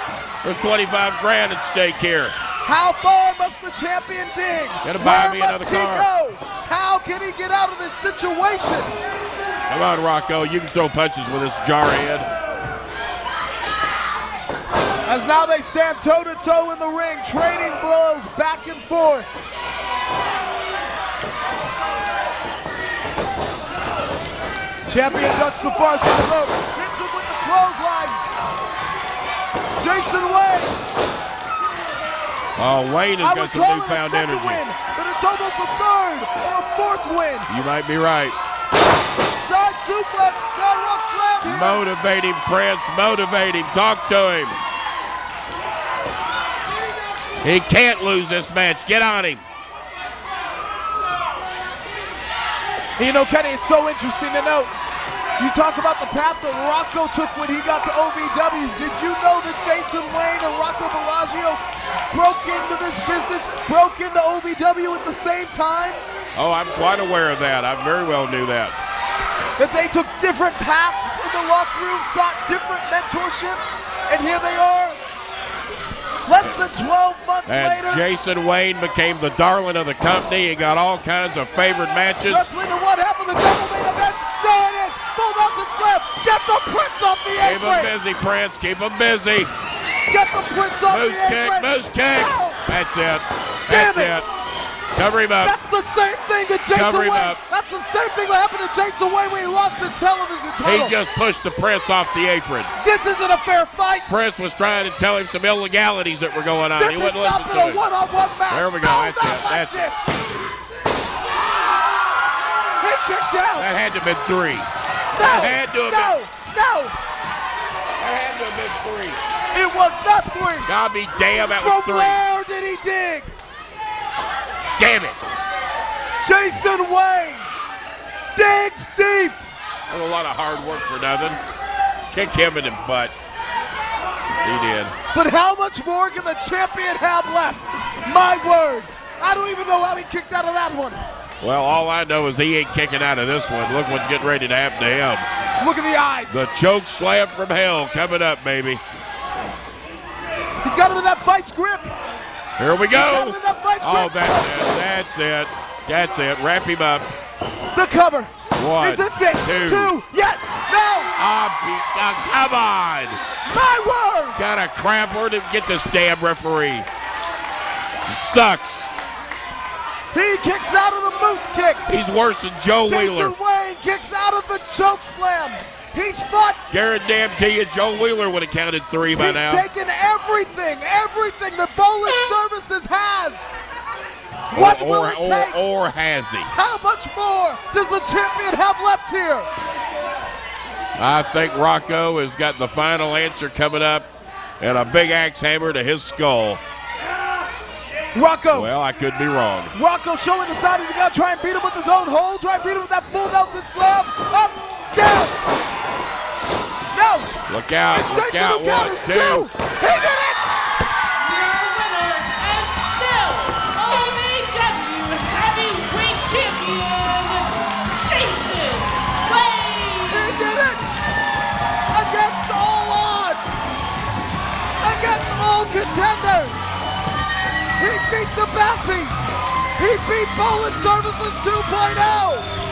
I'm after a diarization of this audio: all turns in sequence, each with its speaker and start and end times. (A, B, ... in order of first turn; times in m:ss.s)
0:00.4-0:02.3 A
0:02.6-0:08.9 B
0:04.8-0:06.1 A
0:09.7-0:12.3 A
0:15.0-0:19.3 B
0:24.9-0:28.2 B
0:29.8-0:30.7 B
0:32.6-0:34.6 A
0:33.2-0:37.5 B
0:37.5-0:38.4 A
0:39.3-0:41.9 B
0:41.4-0:44.6 A
0:47.4-0:49.4 A
0:53.0-0:54.7 B
0:55.4-1:06.0 B
1:06.3-1:08.8 A
1:09.6-1:15.0 B
1:16.3-1:18.0 B
1:17.5-1:22.5 A
1:22.2-1:27.9 B
1:27.4-1:29.5 A
1:30.1-1:32.6 B
1:30.9-1:34.2 A
1:33.7-1:34.2 B
1:34.9-1:35.6 A
1:35.4-1:41.0 B
1:36.7-1:37.4 A
1:40.6-1:42.7 A
1:42.8-1:44.1 B
1:44.1-1:47.8 A
1:46.8-1:50.0 B
1:48.5-1:49.9 A
1:52.8-1:53.7 B
1:53.6-1:54.7 A
1:55.1-1:56.9 B
1:55.2-1:56.2 A
1:58.0-1:59.2 A
1:59.5-2:00.7 B
2:00.6-2:02.2 A
2:01.3-2:03.3 B
2:04.8-2:05.2 A
2:06.2-2:07.5 B
2:08.3-2:09.4 B
2:09.9-2:11.4 A
2:12.1-2:13.1 A
2:14.4-2:14.9 A
2:15.1-2:21.0 B
2:21.4-2:25.2 A
2:25.6-2:26.4 B
2:26.3-2:28.8 A
2:30.6-2:31.9 B
2:32.6-2:37.1 A
2:32.9-2:34.8 B
2:37.7-2:41.1 B
2:38.5-2:39.9 A
2:41.2-2:43.2 A
2:43.4-2:44.4 B
2:44.4-2:46.9 A
2:48.1-2:48.9 A
2:50.1-2:51.9 B
2:51.9-2:53.3 A
2:52.8-2:56.6 B
2:56.7-2:59.6 A
2:59.1-3:03.4 B
3:04.5-3:05.6 B
3:04.5-3:06.5 A
3:06.5-3:09.5 B
3:11.0-3:14.0 A
3:14.6-3:16.6 A
3:18.1-3:18.7 B
3:18.5-3:19.7 A
3:19.7-3:25.4 B
3:26.9-3:27.3 B
3:27.5-3:29.5 A
3:27.9-3:30.4 B
3:31.2-3:40.4 C
3:40.1-3:40.8 B
3:41.9-3:43.4 B
3:44.8-3:46.6 B
3:47.8-3:49.2 B
3:49.8-3:52.5 B